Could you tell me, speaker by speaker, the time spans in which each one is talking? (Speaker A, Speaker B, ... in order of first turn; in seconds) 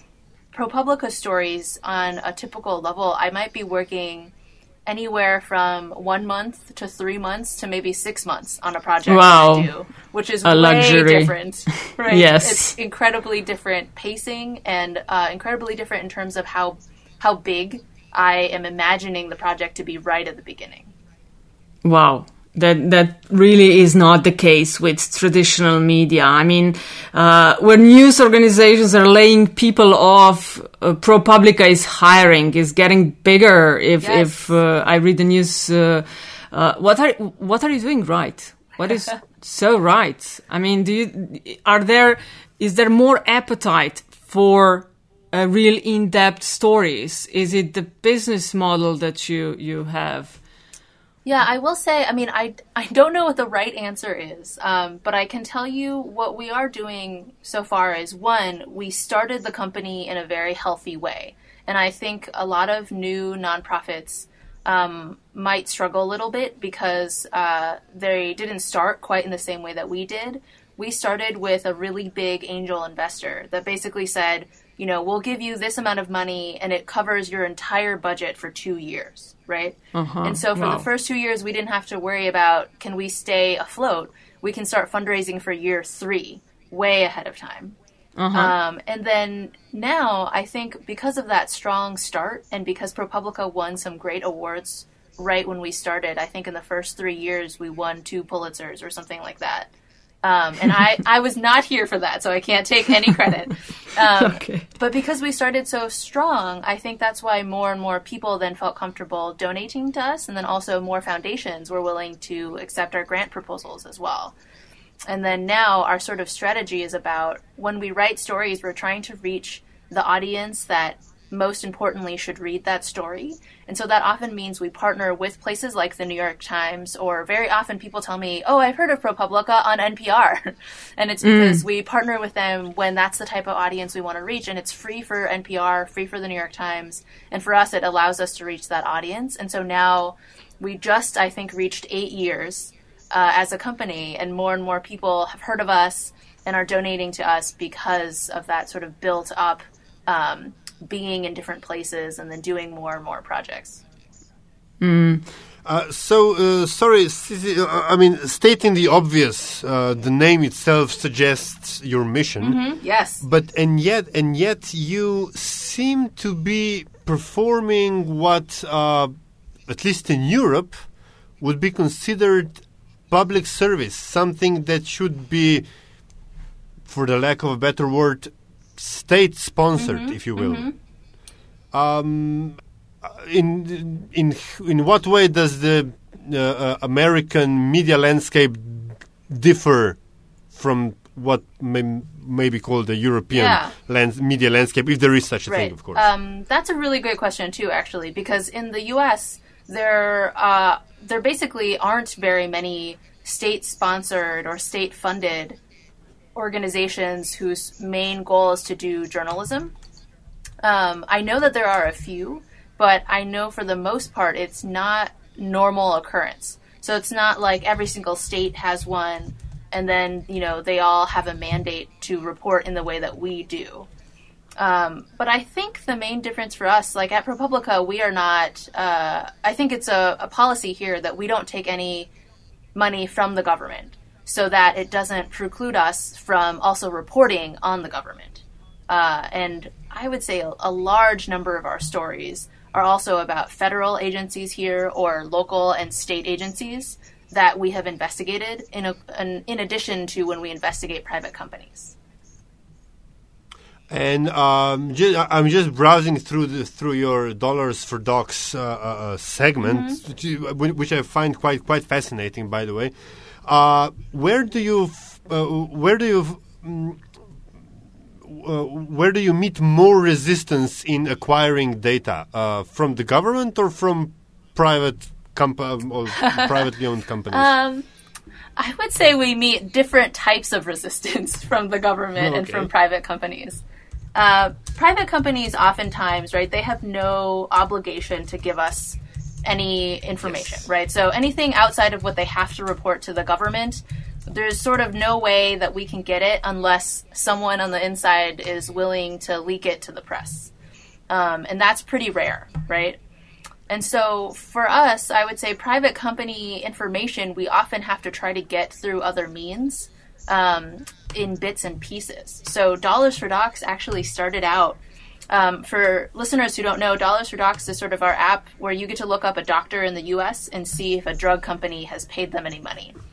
Speaker A: 0.5-4.3, 4.9-20.9, 34.0-34.5, 51.2-87.8, 88.3-99.7, 100.2-114.3, 115.1-153.8, 162.4-163.2, 179.8-180.7, 193.3-193.8, 195.5-205.6, 206.3-209.7, 210.6-223.9, 224.6-232.1, 232.7-251.9, 259.7-260.0, 276.2-276.5, 277.3-277.9, 278.6-283.6, 284.1-300.5, 301.1-303.0, 303.7-314.8, 315.3-322.9
Speaker B: 9.1-9.7, 10.4-12.7, 21.8-50.4, 79.9-80.8, 88.2-88.5, 104.2-104.6, 131.2-131.6, 154.8-155.2
Speaker C: 155.6-162.6, 163.2-169.1, 169.7-170.8, 171.4-175.7, 176.8-180.7, 181.7-190.0, 190.5-196.1, 253.9-262.9, 263.4-267.0, 268.2-277.5, 282.2-282.7